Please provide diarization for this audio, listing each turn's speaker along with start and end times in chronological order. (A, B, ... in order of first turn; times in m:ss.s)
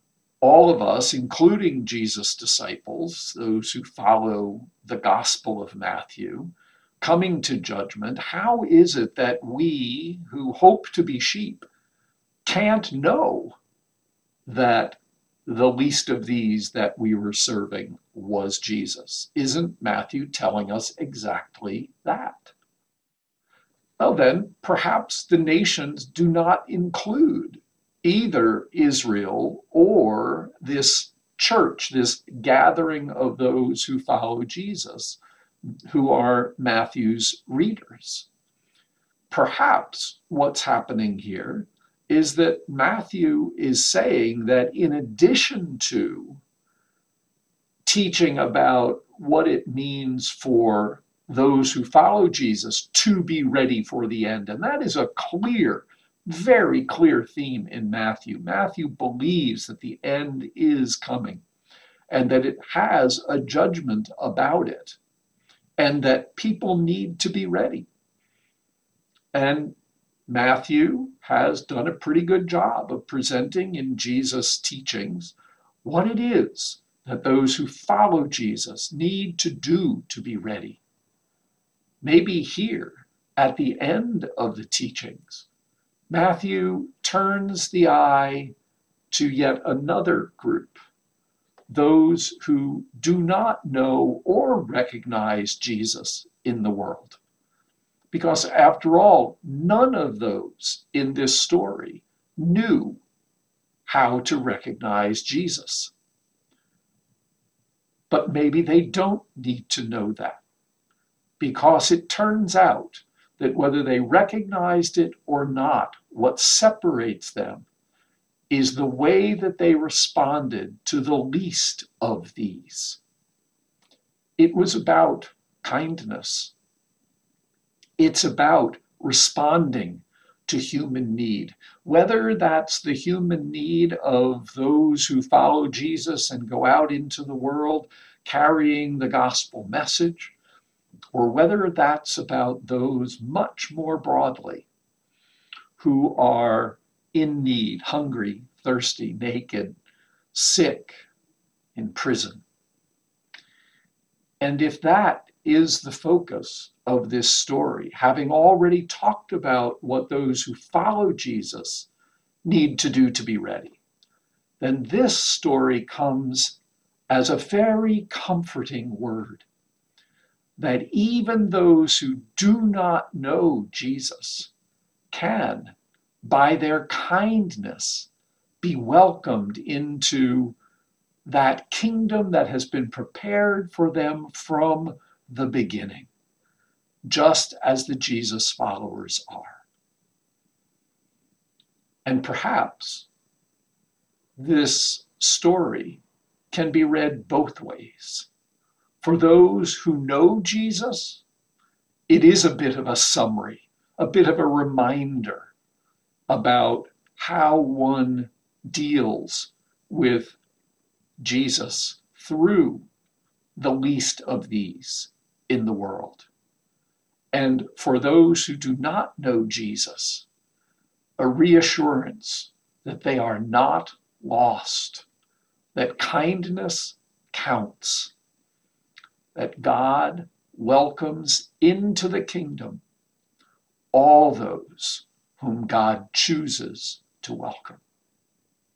0:00.4-0:11.6 A
0:12.4-0:13.6 A
0:14.4-0:22.5 A
0:24.0-0:35.2 A
0:35.8-0:38.3 A
0:39.3-0:46.4 A
0:47.8-1:01.4 A
1:02.1-1:05.0 A
1:05.8-1:07.9 A
1:09.3-1:09.8 A
1:10.3-1:20.8 A
1:22.0-1:25.5 A
1:26.1-1:28.5 A
1:29.1-1:30.8 A
1:31.7-1:37.2 A
1:38.1-1:43.0 A
1:43.8-1:45.9 A
1:48.1-1:50.4 A
1:51.4-1:57.7 A
1:58.5-2:03.0 A
2:04.4-2:06.5 A
2:08.0-2:20.3 A
2:21.1-2:24.7 A
2:25.8-2:29.8 A
2:30.3-2:31.0 A
2:31.7-2:32.4 A
2:34.4-2:41.9 A
2:42.4-2:43.8 A
2:44.6-2:46.6 A
2:47.1-2:49.4 A
2:50.6-2:54.5 A
2:55.1-2:58.1 A
2:58.6-3:00.6 A
3:01.2-3:06.1 A
3:07.0-3:09.6 A
3:12.0-3:13.1 A
3:14.4-3:18.3 A
3:19.0-3:21.2 A
3:22.1-3:25.5 A
3:26.3-3:30.4 A
3:31.2-3:32.9 A
3:33.6-3:36.3 A
3:37.3-3:40.3 A
3:41.2-3:45.1 A
3:45.7-3:48.1 A
3:49.3-3:52.8 A
3:53.9-3:57.8 A